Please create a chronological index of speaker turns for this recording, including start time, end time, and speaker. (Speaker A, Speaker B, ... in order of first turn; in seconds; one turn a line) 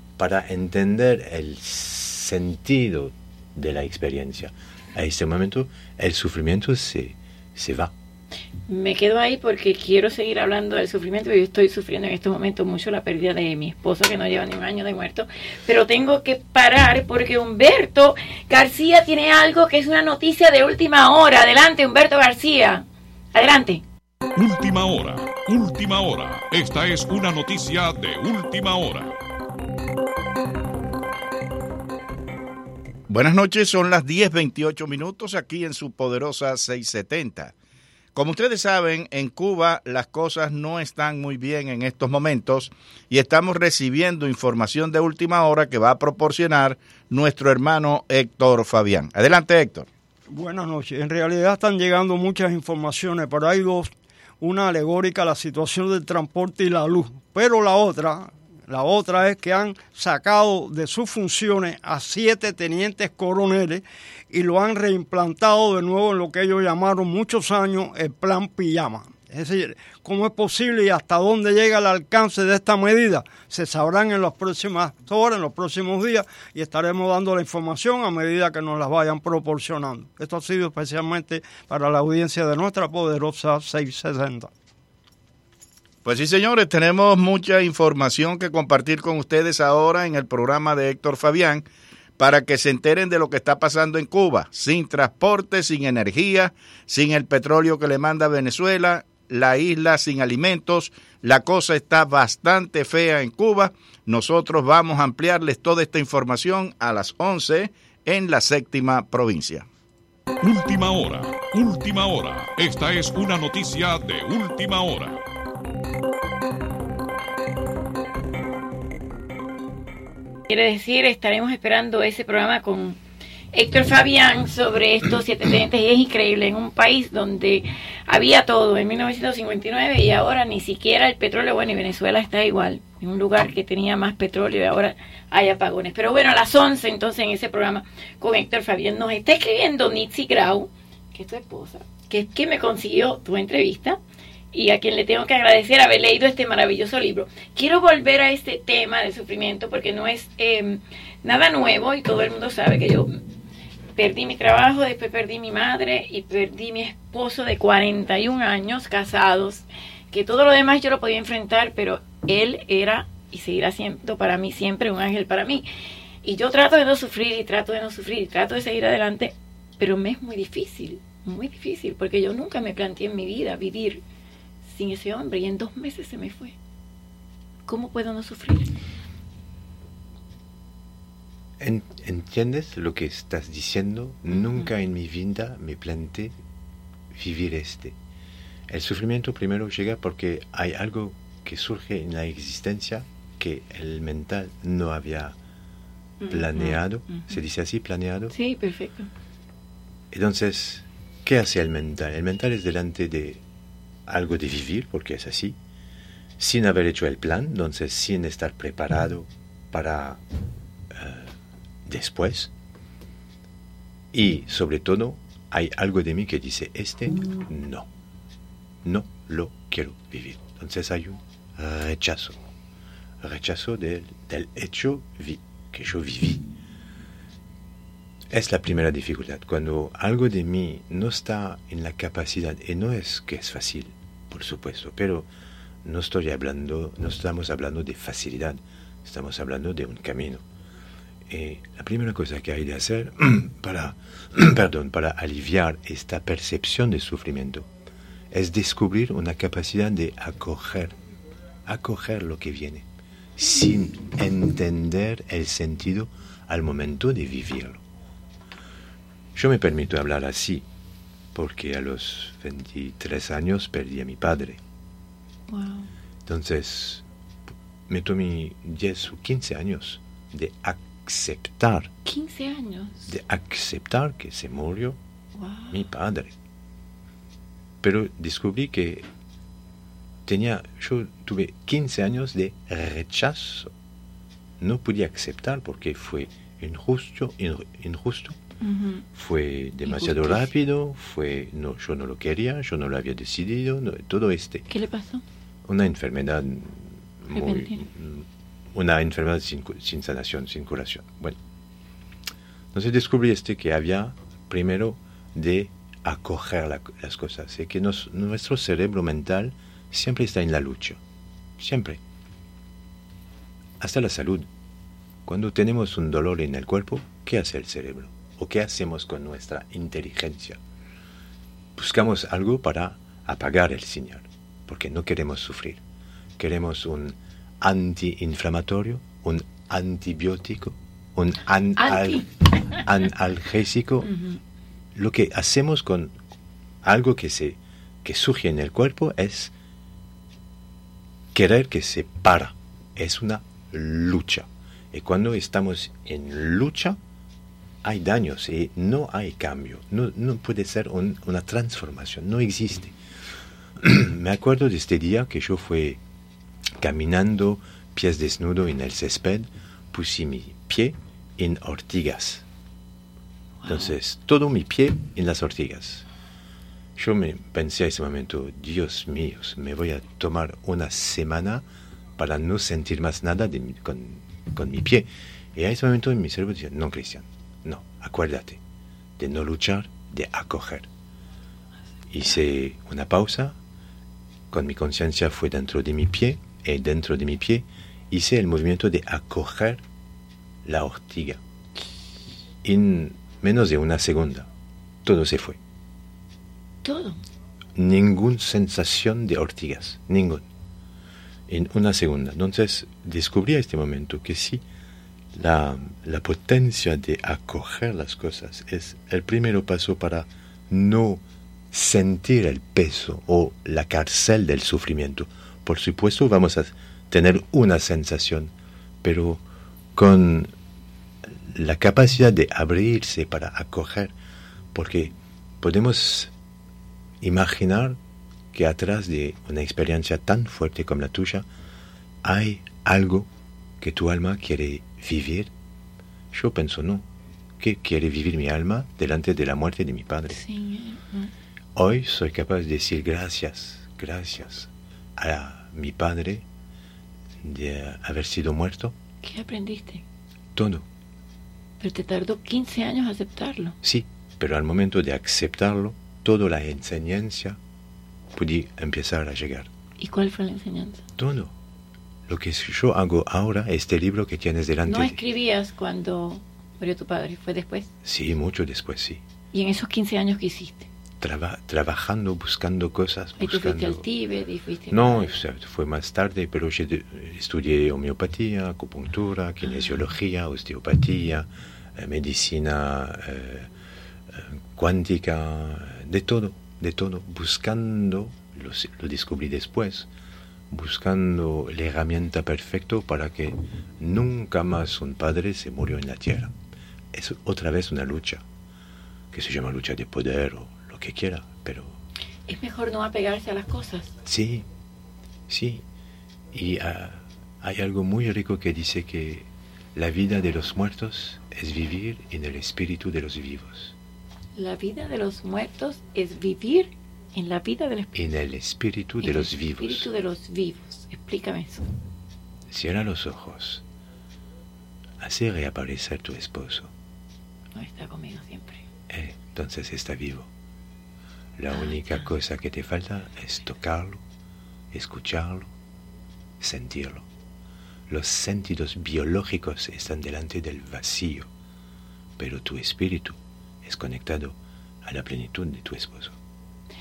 Speaker A: 0.2-7.9
Speaker B: 8.7-23.8
Speaker C: 24.4-29.1
Speaker D: 33.1-37.5
Speaker D: 38.1-49.9
Speaker E: 50.3-84.5
Speaker D: 86.0-91.7
Speaker D: 92.2-109.7
Speaker C: 110.4-115.2
Speaker B: 120.5-123.0
Speaker B: 123.5-144.0
Speaker B: 144.5-153.1
Speaker B: 154.0-165.6
Speaker B: 166.2-174.0
Speaker B: 174.6-176.5
Speaker B: 177.7-178.7
Speaker A: 181.6-186.3
Speaker B: 184.3-184.7
Speaker A: 187.1-187.9
Speaker A: 188.7-195.3
Speaker B: 196.2-197.3
Speaker A: 196.3-198.3
Speaker B: 198.3-199.1
Speaker A: 200.1-203.4
Speaker A: 204.1-205.6
Speaker A: 206.4-210.2
Speaker A: 210.9-211.3
Speaker A: 211.8-212.5
Speaker A: 214.1-217.9
Speaker A: 218.8-222.4
Speaker A: 223.2-226.4
Speaker A: 228.3-235.3
Speaker A: 235.8-240.4
Speaker A: 241.3-247.7
Speaker A: 248.3-250.9
Speaker A: 251.7-257.8
Speaker A: 259.3-260.6
Speaker A: 261.3-264.6
Speaker B: 265.5-265.9
Speaker A: 266.2-267.0
Speaker A: 267.9-271.9
Speaker B: 272.0-273.0
Speaker A: 273.1-275.0
Speaker B: 275.3-275.8
Speaker A: 275.7-276.3
Speaker A: 277.8-279.0
Speaker A: 280.2-283.7
Speaker A: 284.6-288.4
Speaker B: 288.6-289.0
Speaker A: 289.1-294.6
Speaker B: 289.8-290.5
Speaker B: 294.7-295.2
Speaker A: 295.6-301.4
Speaker B: 297.3-297.8
Speaker A: 302.7-311.0
Speaker A: 311.6-312.0
Speaker A: 313.8-314.5
Speaker A: 315.2-320.6
Speaker A: 321.8-325.8
Speaker A: 326.4-334.1
Speaker B: 331.8-332.8
Speaker B: 334.0-334.4
Speaker A: 334.9-336.1
Speaker A: 336.8-339.5
Speaker A: 341.3-347.0
Speaker A: 347.8-352.9
Speaker A: 353.8-356.0
Speaker A: 356.8-362.4
Speaker B: 363.6-363.9
Speaker A: 363.6-366.1
Speaker A: 366.9-371.6
Speaker A: 372.2-378.6
Speaker A: 379.2-380.9
Speaker A: 382.1-383.6
Speaker A: 384.5-389.8
Speaker A: 390.6-391.4
Speaker A: 392.6-394.5
Speaker A: 395.0-395.6
Speaker B: 396.8-397.2
Speaker A: 397.8-400.4
Speaker A: 401.5-404.6
Speaker A: 405.3-418.5
Speaker A: 419.0-419.4
Speaker A: 419.9-420.5
Speaker A: 421.4-424.1
Speaker A: 424.7-426.3
Speaker A: 427.2-428.0
Speaker A: 428.5-431.4
Speaker A: 432.2-433.3
Speaker A: 433.8-435.5
Speaker A: 436.3-437.1
Speaker A: 437.6-440.4
Speaker B: 440.3-441.3
Speaker A: 441.7-446.4
Speaker A: 447.4-448.9
Speaker B: 449.2-450.0
Speaker A: 450.5-450.9
Speaker B: 451.8-453.7
Speaker A: 453.8-457.6
Speaker A: 458.3-459.7
Speaker B: 460.0-461.0
Speaker A: 461.2-461.5
Speaker A: 462.3-465.2
Speaker B: 464.9-467.9
Speaker A: 468.0-469.2
Speaker B: 469.5-470.9
Speaker A: 471.2-474.0
Speaker B: 473.4-475.3
Speaker A: 474.9-483.7
Speaker A: 484.3-490.1
Speaker A: 490.7-496.5
Speaker A: 497.1-498.4
Speaker A: 499.3-502.0
Speaker B: 502.5-504.1
Speaker A: 504.2-504.6
Speaker A: 505.5-505.8
Speaker A: 506.5-514.0
Speaker B: 514.5-518.1
Speaker A: 518.1-520.1
Speaker B: 519.2-521.9
Speaker A: 522.7-523.8
Speaker A: 525.2-526.9
Speaker B: 527.7-528.8
Speaker A: 529.1-530.5
Speaker A: 531.6-534.2
Speaker B: 531.7-532.2
Speaker A: 534.9-535.7
Speaker A: 536.6-537.2
Speaker A: 538.1-541.5
Speaker A: 542.4-546.4